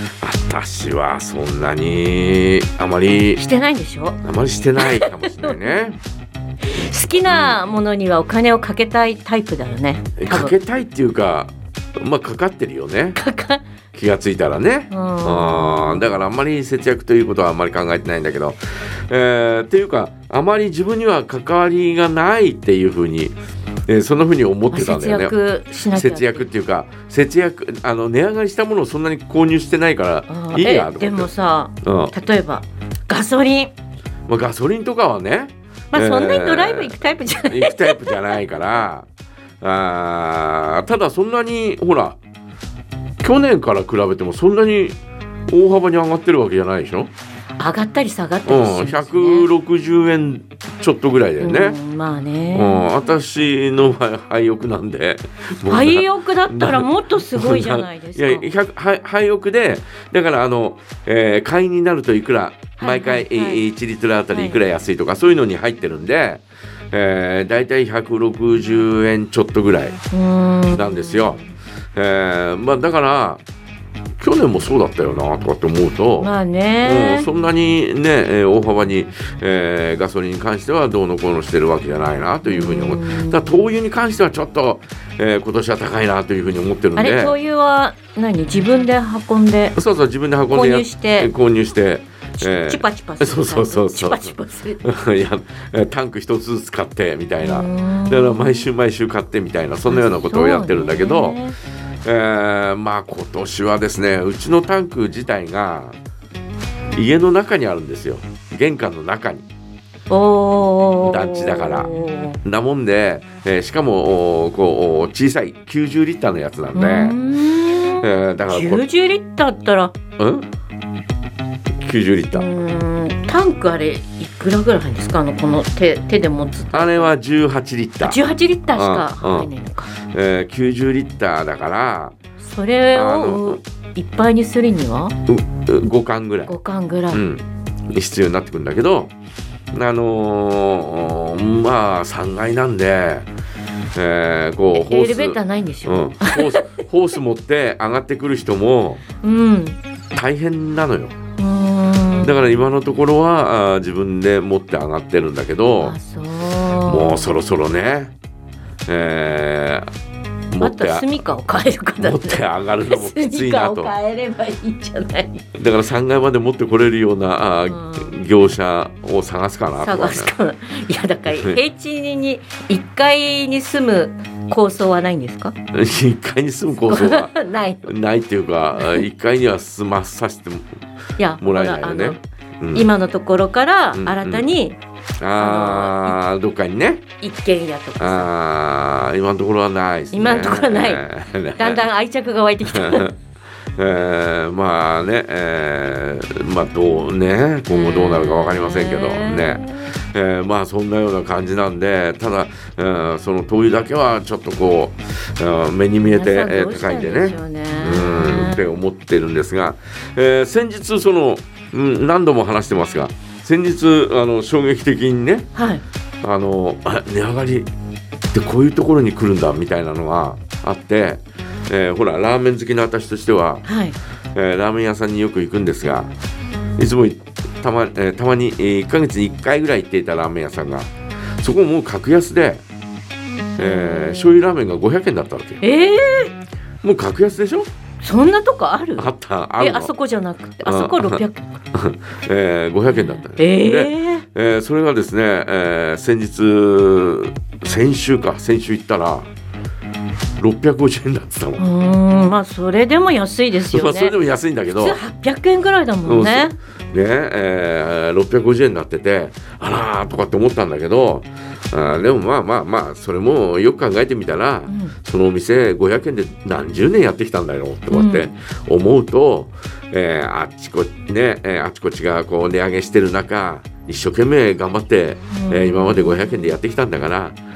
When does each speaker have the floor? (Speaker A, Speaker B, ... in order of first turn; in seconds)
Speaker A: 0.2-3.4, 4.2-6.0, 7.3-7.5, 10.2-13.2, 13.9-25.4, 25.9-31.3, 31.8-32.1, 34.3-39.0, 39.6-42.2, 43.2-45.0, 45.5-47.1, 48.5-51.8, 52.5-70.0, 70.7-71.4, 71.9-73.4, 74.2-76.3, 76.8-87.3, 89.7-101.4, 102.0-106.0, 106.9-109.5, 111.0-117.2, 118.0-118.8, 120.2-120.5, 121.8-122.5, 126.7-128.2, 128.7-132.1, 132.9-133.6, 135.3-136.5, 137.1-139.1, 139.7-143.3, 143.9-149.0, 150.1-151.1, 152.2-155.9, 156.8-158.1, 158.9-159.9, 160.5-161.2, 162.0-163.9, 165.5-170.3, 171.3-171.6, 175.7-177.3, 177.8-180.8, 181.4-182.9, 183.9-184.5, 185.2-187.0, 188.0-191.8, 192.7-193.1, 193.8-215.5, 216.2-217.7, 218.3-223.7, 224.3-226.1, 226.8-230.9, 231.4-232.6, 233.6-235.6, 236.8-237.7, 239.0-239.9, 240.6-249.3, 250.4-251.6, 253.6-255.0, 256.1-277.4
Speaker B: 3.4-4.2, 4.8-5.6, 6.7-10.5, 13.1-13.6, 14.9-16.1, 24.7-26.5, 30.3-33.7, 35.9-38.4, 47.6-49.5, 51.4-53.0, 55.6-58.5, 62.8-63.6, 64.3-64.6, 70.1-71.4, 76.2-77.3, 82.4-83.7, 87.0-89.8, 90.5-91.3, 92.4-94.8, 97.4-98.7, 99.9-101.6, 110.1-112.4, 116.7-119.9, 122.3-127.1, 128.0-129.9, 132.4-135.2, 136.5-137.2, 144.7-146.6, 149.2-149.8, 151.4-152.3, 155.8-157.3, 160.6-165.4, 167.7-168.2, 169.8-175.5, 176.8-177.9, 178.8-179.0, 181.2-182.2, 182.7-184.8, 185.4-186.2, 187.2-188.3, 190.1-191.0, 191.6-193.1, 197.7-199.9, 206.1-208.7, 215.5-215.8, 223.6-224.0, 233.6-234.4, 235.6-236.3, 238.0-241.6, 242.9-244.2, 251.6-254.2, 254.8-256.6, 264.7-264.9, 267.9-268.3, 275.3-276.5